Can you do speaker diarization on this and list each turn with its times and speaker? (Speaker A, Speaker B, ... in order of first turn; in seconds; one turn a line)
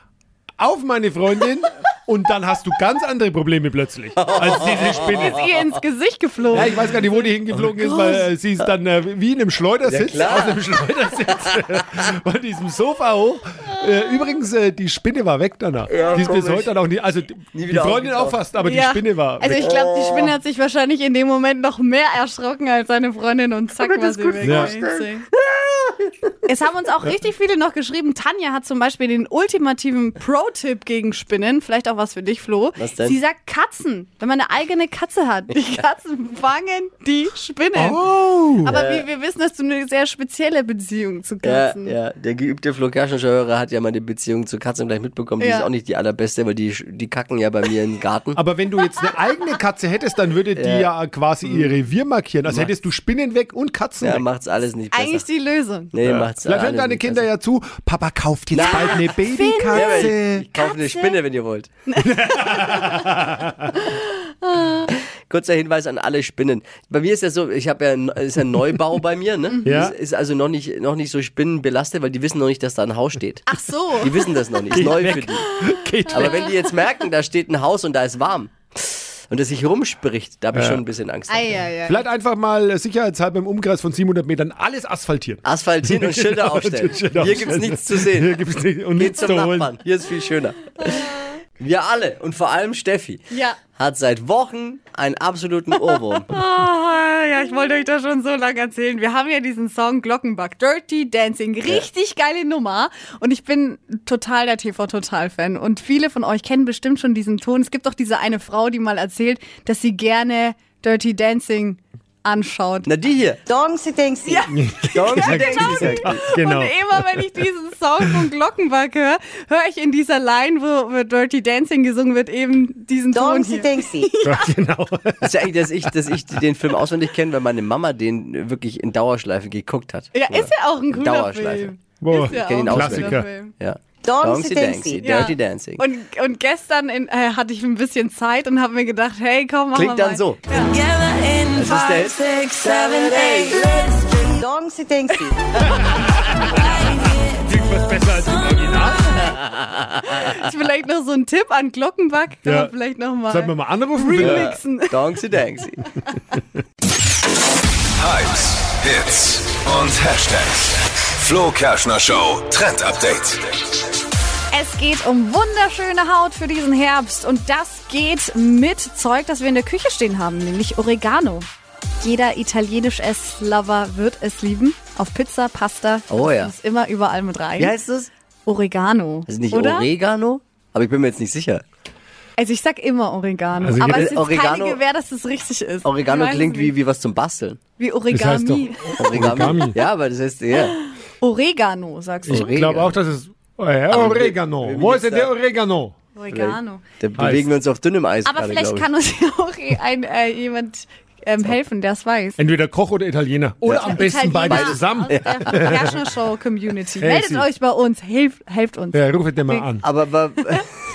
Speaker A: 0.6-5.5
Speaker B: 4.2-5.4
Speaker C: 5.1-6.9
Speaker A: 6.5-19.7
Speaker C: 7.7-8.3
Speaker B: 9.8-10.6
Speaker B: 11.3-12.0
Speaker B: 15.9-16.7
Speaker B: 17.5-18.4
Speaker C: 18.6-25.2
Speaker B: 19.4-20.4
Speaker B: 23.8-26.3
Speaker A: 24.4-24.7
Speaker C: 26.5-38.0
Speaker B: 32.8-33.2
Speaker A: 37.8-38.8
Speaker C: 38.6-42.0
Speaker B: 38.7-39.1
Speaker B: 41.4-48.4
Speaker C: 45.4-45.7
Speaker A: 48.4-54.2
Speaker B: 50.5-50.9
Speaker B: 51.4-51.8
Speaker B: 52.5-52.7
Speaker B: 54.0-55.2
Speaker C: 54.9-55.9
Speaker B: 55.9-57.3
Speaker A: 56.0-60.5
Speaker B: 58.5-59.1
Speaker C: 58.6-61.2
Speaker B: 59.7-61.7
Speaker C: 61.9-64.9
Speaker A: 62.0-63.5
Speaker B: 65.3-73.5
Speaker C: 69.5-69.8
Speaker A: 69.6-70.0
Speaker C: 73.5-76.8
Speaker B: 74.0-75.5
Speaker A: 74.7-76.5
Speaker B: 76.1-81.5
Speaker A: 80.5-80.8
Speaker C: 81.3-82.0
Speaker A: 81.9-89.8
Speaker B: 85.5-88.3
Speaker B: 89.0-96.3
Speaker C: 93.3-93.6
Speaker C: 95.8-112.9
Speaker B: 112.8-113.4
Speaker D: 113.5-114.5
Speaker C: 114.2-124.5
Speaker A: 114.5-116.8
Speaker B: 114.9-116.2
Speaker D: 123.1-124.1
Speaker A: 124.2-125.9
Speaker B: 125.2-135.8
Speaker C: 130.1-133.5
Speaker A: 132.0-133.3
Speaker D: 134.0-135.3
Speaker C: 135.0-140.9
Speaker B: 139.7-140.4
Speaker D: 141.1-145.4
Speaker B: 141.5-143.6
Speaker C: 145.2-145.7
Speaker A: 145.6-149.3
Speaker C: 150.1-155.0
Speaker A: 152.4-152.7
Speaker A: 153.3-154.5
Speaker B: 154.2-155.8
Speaker E: 158.0-163.4
Speaker C: 164.5-171.5
Speaker C: 172.0-177.8
Speaker B: 176.1-176.5
Speaker B: 177.6-178.1
Speaker C: 178.5-179.9
Speaker B: 179.3-181.6
Speaker C: 182.4-186.8
Speaker A: 183.6-184.2
Speaker B: 183.8-184.8
Speaker B: 185.8-187.6
Speaker C: 187.8-189.2
Speaker A: 188.1-189.8
Speaker B: 189.0-190.8
Speaker C: 191.2-192.5
Speaker A: 192.3-195.9
Speaker B: 192.3-192.9
Speaker B: 193.9-195.3
Speaker C: 196.2-196.8
Speaker B: 196.3-198.9
Speaker A: 197.2-197.6
Speaker C: 198.2-202.4
Speaker A: 202.4-205.9
Speaker B: 203.6-206.0
Speaker C: 203.7-209.8
Speaker A: 207.0-207.5
Speaker A: 208.9-209.9
Speaker B: 209.8-210.6